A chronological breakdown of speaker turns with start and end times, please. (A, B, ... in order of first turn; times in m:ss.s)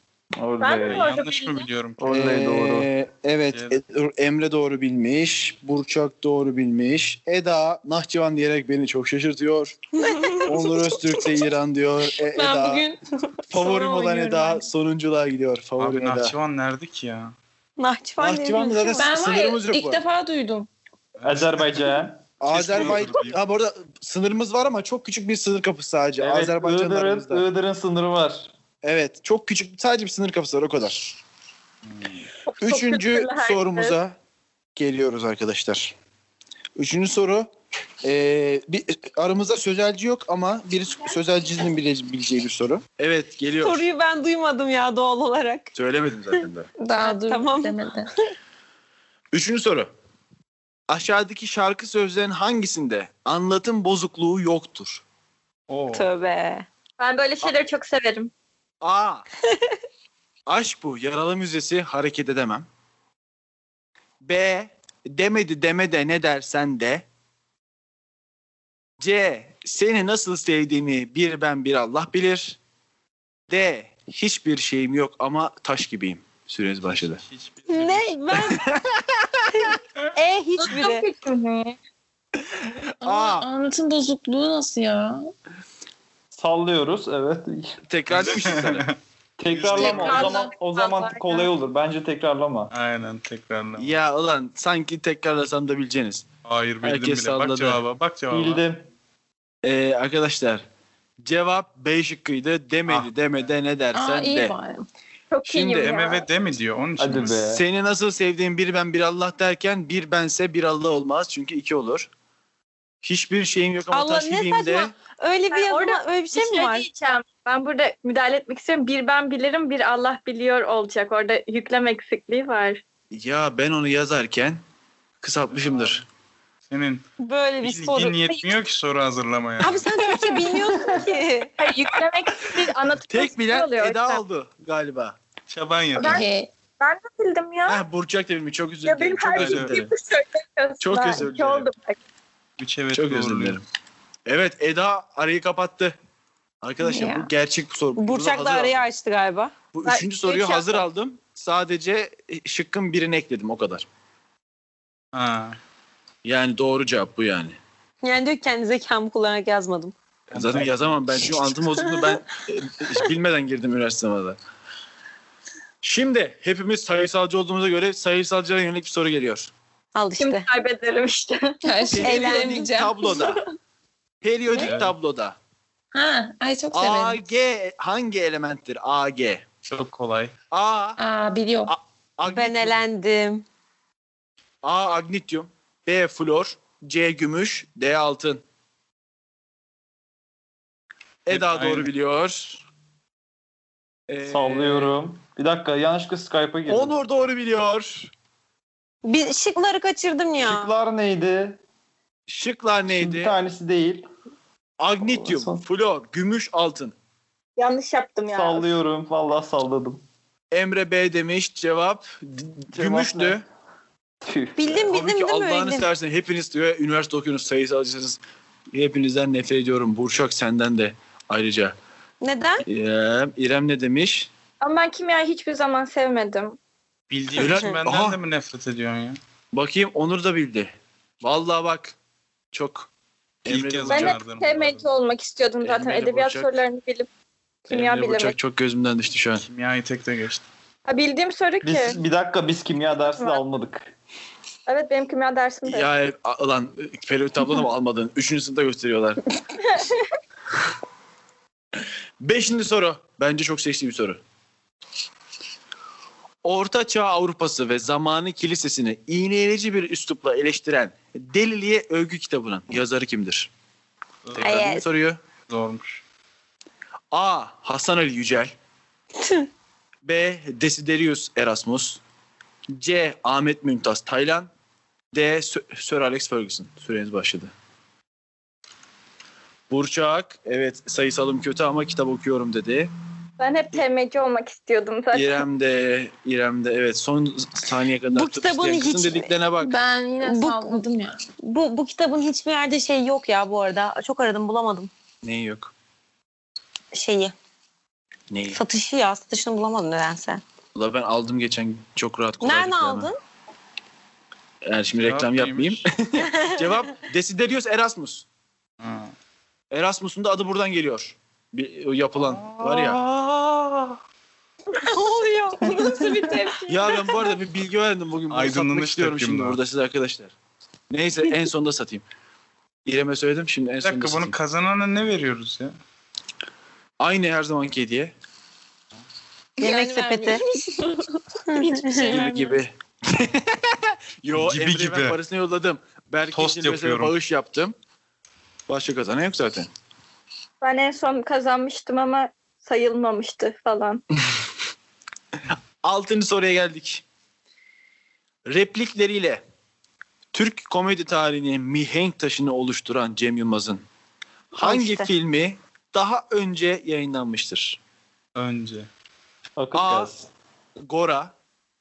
0:00.4-0:01.1 A
0:00.6-0:01.6 B
0:00.8-0:02.0 C
0:02.0-0:02.9 A
0:02.0-0:09.8 D
0:03.5-0:03.8 C
0:09.9-0:10.9 E
0:10.4-0:12.8 D
0:12.2-0:14.6 F
0:13.5-0:16.4 D
0:15.8-0:17.3 C
0:17.8-0:19.0 E
0:18.2-0:20.0 D
0:18.9-0:20.7 F
0:21.2-0:21.9 C
0:21.2-0:22.2 A
0:22.4-0:27.4 D
0:22.5-0:23.4 C
0:26.2-0:28.5 A
0:28.8-0:31.2 D
0:31.9-0:32.2 C
0:32.5-0:34.0 B
0:32.6-0:34.2 D
0:34.8-0:35.9 D
0:36.8-0:37.5 D
0:38.0-0:43.8 D
0:43.6-0:45.7 E
0:45.7-0:46.7 D
0:46.8-0:48.1 F
0:47.0-0:47.8 E
0:49.3-0:49.9 D
0:50.9-0:55.0 D
0:55.7-0:56.1 C
0:55.9-0:56.6 E
0:57.0-0:58.3 B
0:58.8-0:59.2 D
1:00.5-1:02.6 D
1:04.2-1:07.0 D
1:09.0-1:12.6 D
1:13.5-1:17.2 D
1:16.9-1:18.4 C
1:17.7-1:18.6 E
1:18.3-1:19.7 D
1:19.5-1:21.0 E
1:20.6-1:21.8 B
1:22.4-1:23.4 D
1:23.0-1:25.3 F
1:26.3-1:27.8 A
1:27.9-1:28.9 D
1:28.1-1:29.0 C
1:29.4-1:32.7 A
1:29.5-1:30.2 D
1:29.8-1:30.5 F
1:29.9-1:31.5 B
1:32.7-1:34.0 C
1:33.8-1:36.2 D
1:36.4-1:38.6 C
1:36.8-1:37.8 D
1:38.3-1:38.9 A
1:39.6-1:40.6 D
1:41.2-1:44.5 D
1:43.9-1:44.8 F
1:45.3-1:46.3 B
1:45.4-1:46.0 D
1:45.8-1:47.4 C
1:47.0-1:47.6 A
1:47.5-1:52.1 D
1:53.0-1:54.9 D
1:53.9-1:56.8 E
1:55.5-2:02.8 B
2:03.1-2:04.6 D
2:05.2-2:06.0 D
2:05.6-2:06.0 C
2:06.6-2:07.0 C
2:07.2-2:08.4 E
2:07.6-2:09.8 C
2:09.6-2:11.5 E
2:10.7-2:11.0 A
2:11.6-2:14.2 B
2:13.1-2:15.2 D
2:15.5-2:16.2 C
2:16.0-2:16.2 B
2:16.0-2:16.5 F
2:16.8-2:17.8 B
2:17.6-2:19.9 D
2:18.8-2:22.0 B
2:19.3-2:19.8 C
2:20.8-2:21.7 D
2:22.6-2:23.6 C
2:22.9-2:23.6 D
2:24.2-2:25.9 D
2:26.6-2:28.8 D
2:26.8-2:27.3 F
2:28.0-2:29.5 E
2:29.7-2:33.8 D
2:29.8-2:30.8 B
2:35.1-2:35.6 C
2:36.2-2:37.6 D
2:38.0-2:39.9 E
2:40.3-2:41.3 C
2:40.3-2:44.4 D
2:41.5-2:42.2 E
2:45.8-2:49.5 D
2:49.9-2:50.5 E
2:50.2-2:51.6 B
2:51.6-2:53.4 F
2:51.9-2:53.4 D
2:54.2-2:55.4 D
2:54.5-2:54.9 C
2:55.9-2:57.2 F
2:56.7-2:59.4 D
2:59.7-3:00.3 C
3:00.5-3:01.0 D
3:01.0-3:01.7 F
3:01.7-3:02.8 D
3:02.2-3:03.4 E
3:04.6-3:08.4 D
3:11.2-3:12.6 D
3:11.3-3:11.9 C
3:14.1-3:14.9 D
3:14.2-3:16.9 A
3:16.6-3:18.1 D
3:19.0-3:20.7 E
3:20.4-3:21.6 A
3:22.3-3:23.3 D
3:22.9-3:24.1 A
3:24.8-3:26.9 D
3:25.0-3:25.6 A
3:27.6-3:28.7 B
3:28.3-3:30.0 A
3:30.5-3:33.4 D
3:32.7-3:33.4 A
3:34.2-3:34.8 A
3:34.6-3:35.9 E
3:34.7-3:38.2 D
3:38.7-3:41.8 D
3:42.2-3:42.6 E
3:42.6-3:44.3 D
3:44.6-3:46.6 B
3:47.1-3:49.2 C
3:47.4-3:48.2 D
3:49.5-3:52.0 D
3:52.5-3:52.9 D
3:53.4-3:54.2 D
3:53.4-3:54.9 C
3:53.9-3:57.1 B
3:55.6-3:56.6 D
3:57.7-3:58.3 B
3:57.7-3:59.4 D
3:59.4-4:00.4 C
4:00.8-4:02.0 B
4:01.6-4:03.9 A
4:03.1-4:03.4 B
4:04.7-4:05.9 B
4:05.6-4:09.2 D
4:09.7-4:10.0 B
4:12.2-4:14.2 D
4:16.4-4:23.5 D
4:24.2-4:24.7 C
4:24.4-4:25.2 D
4:24.4-4:24.8 E
4:25.5-4:26.0 C
4:27.1-4:28.5 D
4:29.2-4:29.5 E
4:30.0-4:32.0 D
4:32.7-4:34.5 D
4:35.1-4:37.5 D
4:39.7-4:42.9 D
4:43.4-4:45.4 B
4:45.1-4:49.7 D
4:48.1-4:49.3 E
4:49.6-4:51.2 F
4:50.2-4:50.8 E
4:51.4-4:54.9 E
4:55.2-4:55.7 D
4:56.9-4:57.3 E
4:58.3-4:58.6 D
4:58.5-5:00.4 E
5:00.7-5:03.1 D
5:02.4-5:03.2 E
5:04.6-5:08.2 D
5:05.0-5:05.9 C
5:06.2-5:06.7 E
5:08.8-5:09.1 C
5:09.7-5:14.0 D
5:12.2-5:13.0 C
5:14.8-5:15.8 E
5:15.6-5:17.2 F
5:15.6-5:16.3 A
5:16.7-5:20.3 D
5:18.3-5:19.6 C
5:20.9-5:22.0 D
5:22.8-5:24.4 D
5:23.8-5:25.7 C
5:27.0-5:28.1 D
5:29.6-5:32.2 F
5:29.6-5:30.4 E
5:31.5-5:32.3 E
5:31.9-5:37.7 D
5:32.1-5:32.4 B
5:34.3-5:35.2 C
5:36.3-5:37.1 C
5:38.7-5:39.7 D
5:40.6-5:44.0 B
5:45.8-5:47.0 D
5:48.4-5:49.4 D
5:50.3-5:53.8 D
5:54.5-5:57.8 D
5:54.6-5:55.1 E
5:58.4-5:58.9 C
5:59.6-6:00.3 A
5:59.7-6:00.1 D
6:00.8-6:01.3 D